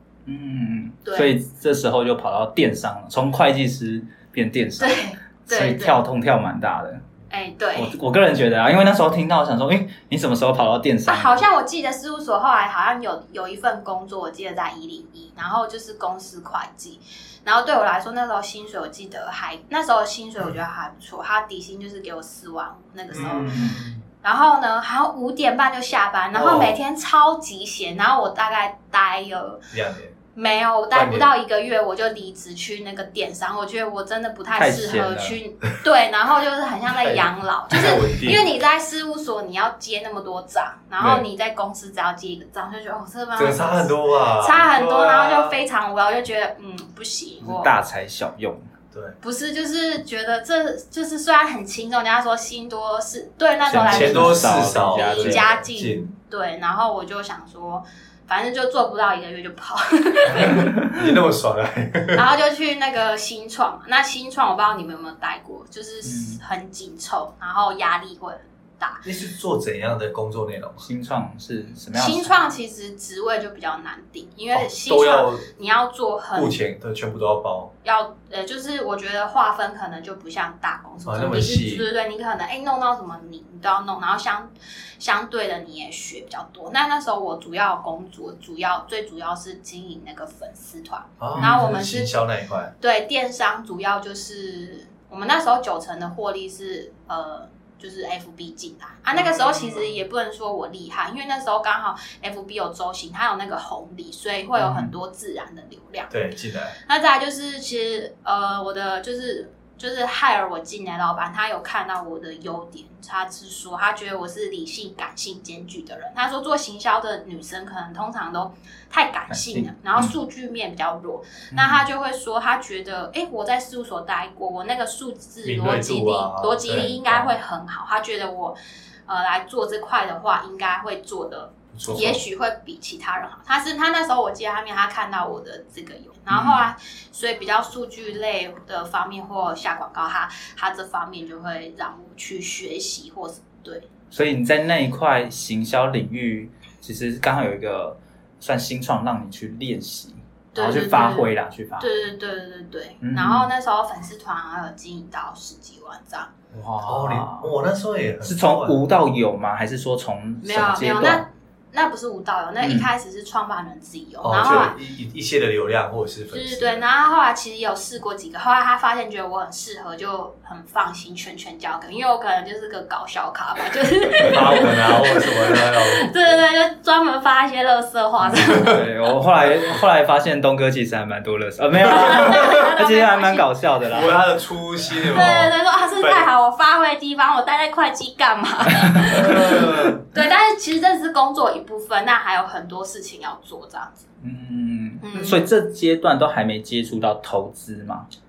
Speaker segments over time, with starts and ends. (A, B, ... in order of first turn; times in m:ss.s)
0:00.3-0:07.0 A
0:01.1-0:01.3 B
0:04.8-0:06.0 B
0:07.3-0:08.0 B
0:07.8-0:11.4 A
0:11.1-0:29.6 B
0:23.1-0:24.0 C
0:23.1-0:23.8 A
0:26.3-0:26.8 C
0:29.7-0:30.1 C
0:30.4-0:47.7 B
0:30.9-0:31.3 C
0:34.6-0:35.4 A
0:37.0-0:38.5 C
0:41.0-0:41.2 C
0:43.4-0:45.6 C
0:47.4-0:48.7 A
0:49.2-1:00.7 B
0:53.7-0:55.5 A
0:53.8-0:56.1 C
1:00.3-1:02.2 C
1:02.2-1:09.0 B
1:06.0-1:06.4 A
1:09.0-1:10.9 C
1:10.8-1:12.3 A
1:11.9-1:16.5 B
1:14.5-1:15.5 C
1:16.4-1:17.7 C
1:17.8-1:32.1 B
1:21.1-1:21.9 C
1:31.2-1:32.7 C
1:31.3-1:31.8 A
1:32.8-1:46.1 B
1:39.1-1:39.9 C
1:44.6-1:44.9 A
1:46.1-1:46.8 C
1:46.8-2:23.9 B
1:59.3-2:00.2 A
2:01.5-2:01.9 A
2:05.4-2:07.4 C
2:11.7-2:12.2 C
2:16.3-2:16.6 A
2:24.1-2:31.9 A
2:30.6-2:36.3 B
2:33.0-2:33.5 A
2:36.5-2:37.5 A
2:36.8-2:38.8 C
2:38.2-2:41.3 A
2:40.4-2:44.8 B
2:42.6-2:42.9 A
2:44.2-2:46.8 C
2:46.3-2:58.8 B
2:54.2-2:56.4 C
2:58.3-2:58.7 C
2:58.4-3:04.2 A
3:01.8-3:03.5 B
3:03.9-3:06.3 C
3:05.1-3:14.0 B
3:09.1-3:10.0 C
3:14.2-3:18.1 A
3:15.0-3:15.5 B